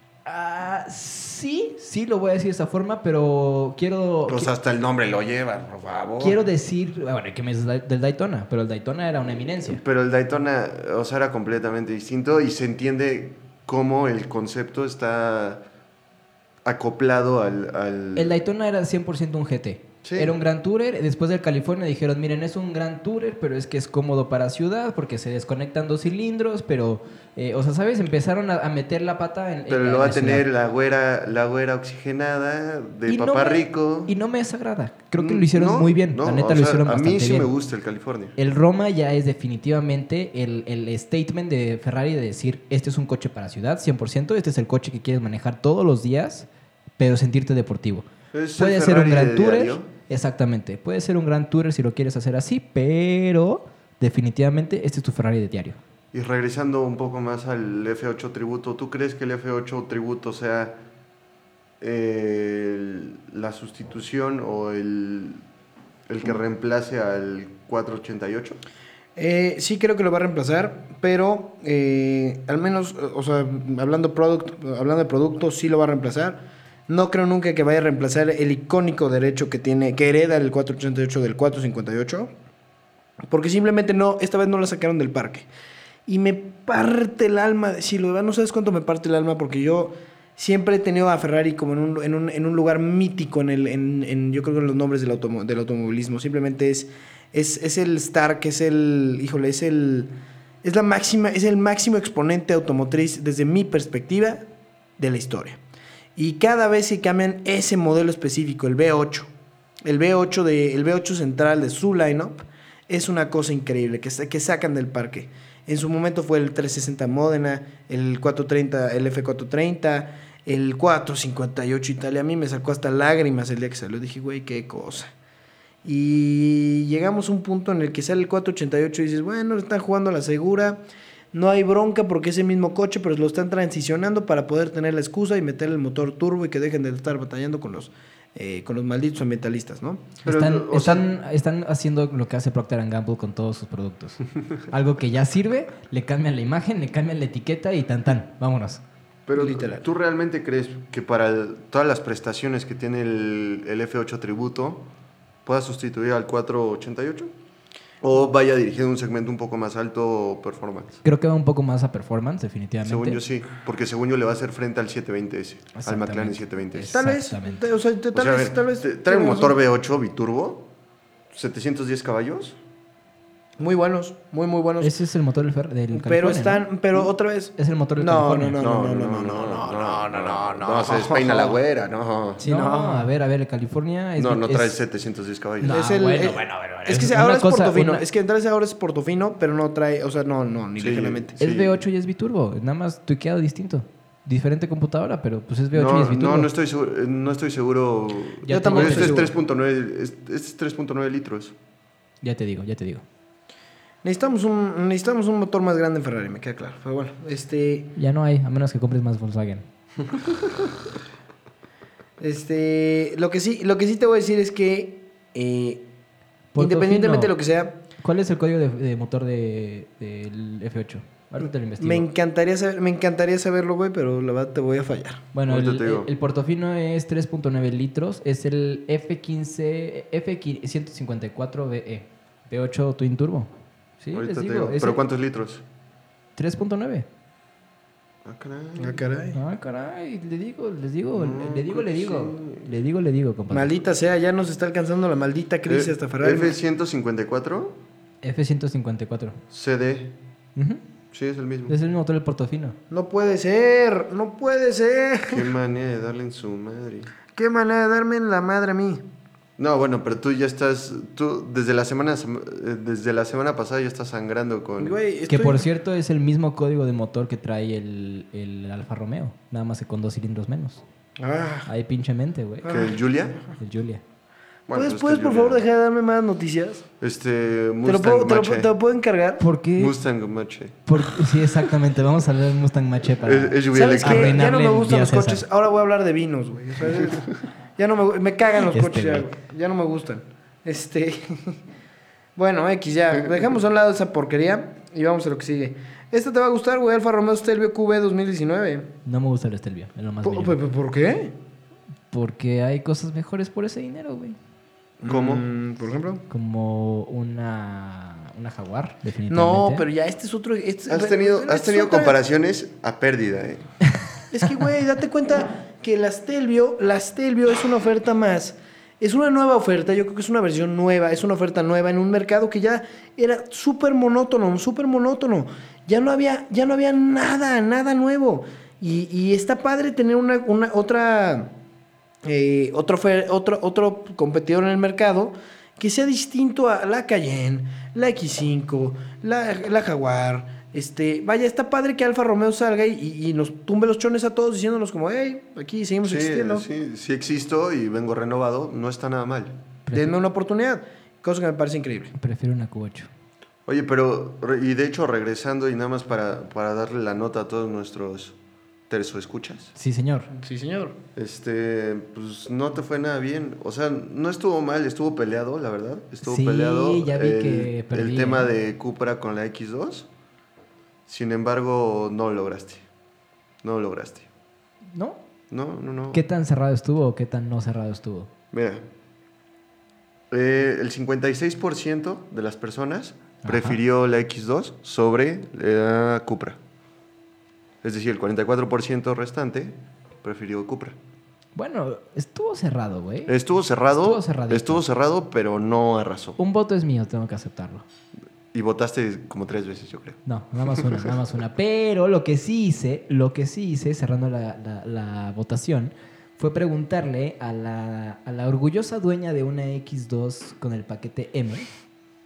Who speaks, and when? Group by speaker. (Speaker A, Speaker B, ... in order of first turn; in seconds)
Speaker A: 0.2-4.5, 6.2-9.8, 18.2-30.5, 33.1-37.5, 38.4-46.5, 47.0-55.8, 140.2-148.8, 161.0-163.2, 165.8-167.7, 174.8-176.7, 177.6-178.6, 182.4-184.8, 185.6-188.1, 191.4-196.5, 198.4-199.3, 202.2-203.0, 208.0-209.7, 216.5-217.4, 218.0-222.1, 225.3-235.0, 236.4-237.1, 239.3-243.7, 248.2-249.4, 250.6-250.8, 251.7-252.8, 265.3-270.8, 271.7-272.8, 273.6-274.0, 279.4-280.0, 280.9-285.4, 288.7-289.3, 299.1-300.6, 302.1-304.4, 306.3-309.9, 349.9-350.1, 352.1-353.1, 359.8-360.3, 366.2-368.5, 374.9-375.2, 376.1-378.3, 383.4-383.8, 391.6-393.4, 394.0-394.8, 396.4-397.8, 400.3-411.7
Speaker B: 4.3-6.4, 9.7-15.6, 16.6-18.4, 20.0-20.4, 29.7-34.1, 35.2-38.4, 48.3-49.9, 56.1-60.8, 61.8-65.4, 66.1-68.6, 140.2-141.1, 149.3-154.9, 155.4-157.3, 158.0-161.0, 162.8-167.0, 168.2-170.7, 171.3-172.6, 178.6-182.4, 184.2-185.8, 190.8-191.8, 195.7-201.6, 225.5-226.1, 234.1-235.6, 238.2-239.0, 241.1-242.7, 245.7-247.8, 249.5-250.2, 251.1-251.8, 255.3-257.1, 259.6-265.0, 272.7-273.4, 274.7-275.6, 277.0-278.7, 279.8-280.9, 283.2-284.5, 305.0-305.4, 310.9-313.7, 346.0-349.6, 353.7-358.4, 358.9-359.7, 361.2-370.1, 371.1-372.8, 373.6-374.3, 375.5-376.2, 378.5-378.9, 380.3-386.6, 387.8-391.0, 393.3-396.4, 398.5-401.1
Speaker C: 69.2-82.3, 83.3-85.5, 86.1-100.1, 100.6-104.5, 105.0-105.6, 106.2-109.3, 109.8-125.1, 125.8-130.8, 131.3-140.1, 149.4-149.8, 166.9-169.6, 173.6-174.9, 175.9-181.6, 182.4-183.1, 185.7-191.4, 198.5-199.3, 204.0-207.9, 212.2-215.8, 216.6-217.8, 221.8-225.2, 238.8-239.4, 243.5-246.6, 252.9-255.5, 257.4-259.0, 264.8-265.7, 271.2-271.7, 272.6-272.9, 274.7-276.9, 277.9-279.4, 283.7-291.6, 292.4-298.9, 300.2-301.3, 305.0-306.2, 309.3-312.2, 314.3-331.5, 332.2-346.7, 349.9-352.1, 360.3-361.0